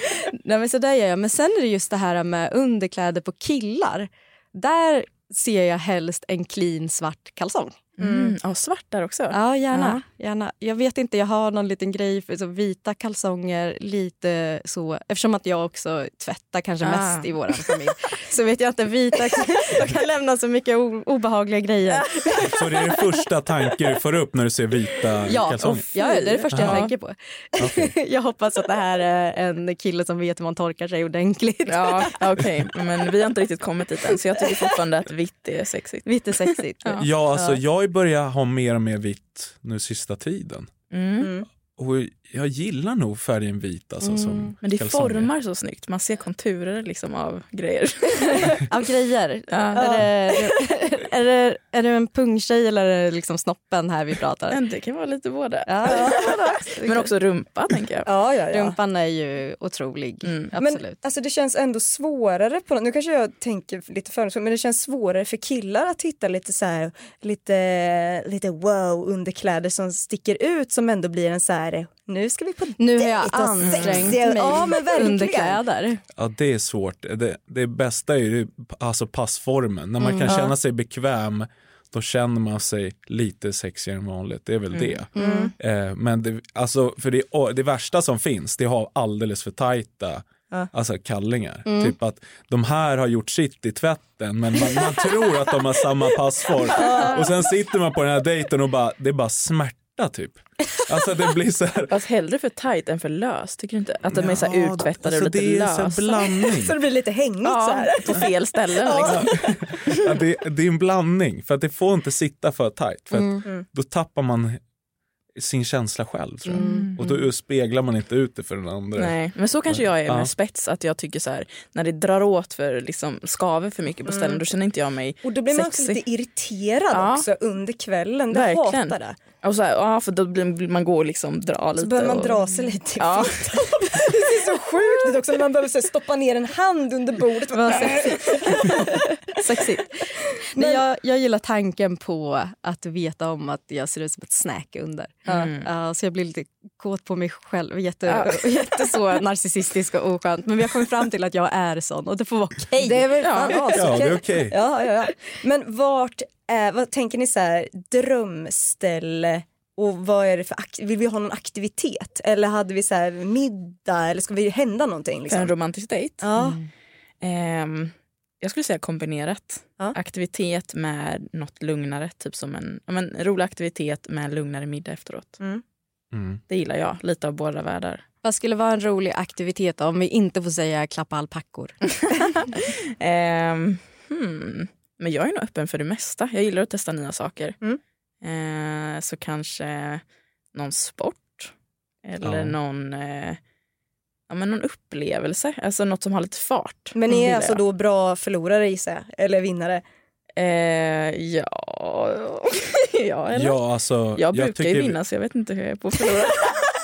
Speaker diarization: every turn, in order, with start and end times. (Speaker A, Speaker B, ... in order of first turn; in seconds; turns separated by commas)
Speaker A: 0.3-7.8, Speaker B: 8.0-10.0, Speaker C: 8.0-8.3, Speaker A: 9.3-22.5, Speaker B: 16.8-17.6, Speaker D: 22.5-25.9, Speaker A: 25.3-32.2, Speaker B: 25.9-26.9, Speaker D: 26.5-26.8, Speaker D: 27.6-27.9, Speaker B: 31.7-37.1, Speaker A: 36.1-37.5, Speaker D: 37.0-40.7, Speaker B: 40.9-41.4, Speaker C: 41.2-41.5, Speaker D: 41.8-45.3, Speaker A: 44.0-44.5, Speaker B: 44.6-48.6, Speaker A: 48.5-54.6, Speaker B: 49.5-50.1, Speaker C: 49.8-50.1, Speaker B: 54.5-58.1, Speaker A: 55.7-57.1, Speaker C: 55.9-56.3, Speaker C: 58.0-58.8, Speaker A: 58.5-61.0, Speaker B: 60.2-60.5, Speaker C: 60.6-75.6, Speaker A: 72.8-76.0, Speaker B: 73.6-74.2, Speaker D: 76.2-102.0, Speaker A: 80.0-80.4, Speaker C: 80.3-80.5, Speaker B: 84.7-85.0, Speaker C: 85.2-85.5, Speaker A: 85.2-85.5, Speaker A: 91.7-92.0, Speaker C: 96.7-97.3, Speaker B: 101.9-106.4, Speaker D: 104.1-106.8, Speaker C: 106.4-109.5, Speaker B: 107.4-109.4, Speaker D: 109.1-114.6, Speaker A: 113.1-113.4, Speaker D: 115.4-119.2, Speaker B: 116.5-117.0, Speaker A: 116.6-116.9, Speaker B: 119.0-126.0, Speaker D: 119.7-120.3, Speaker C: 124.1-124.4, Speaker C: 125.2-129.2, Speaker B: 126.9-127.3, Speaker B: 128.3-134.0, Speaker C: 131.8-139.0, Speaker A: 137.5-153.8, Speaker C: 140.6-140.8, Speaker B: 145.3-145.7, Speaker B: 148.1-148.7, Speaker C: 152.7-165.6, Speaker B: 153.2-153.7, Speaker D: 153.7-154.6, Speaker B: 165.3-166.3, Speaker C: 166.2-166.6, Speaker B: 167.2-175.4, Speaker D: 176.1-176.4, Speaker B: 176.5-178.0, Speaker A: 178.2-181.8, Speaker B: 182.0-187.6, Speaker B: 188.2-190.0, Speaker B: 190.5-191.5, Speaker B: 192.1-193.4, Speaker D: 192.2-192.5, Speaker B: 194.3-197.6, Speaker C: 196.9-199.8, Speaker B: 200.4-203.6, Speaker D: 203.3-205.0, Speaker B: 204.1-206.7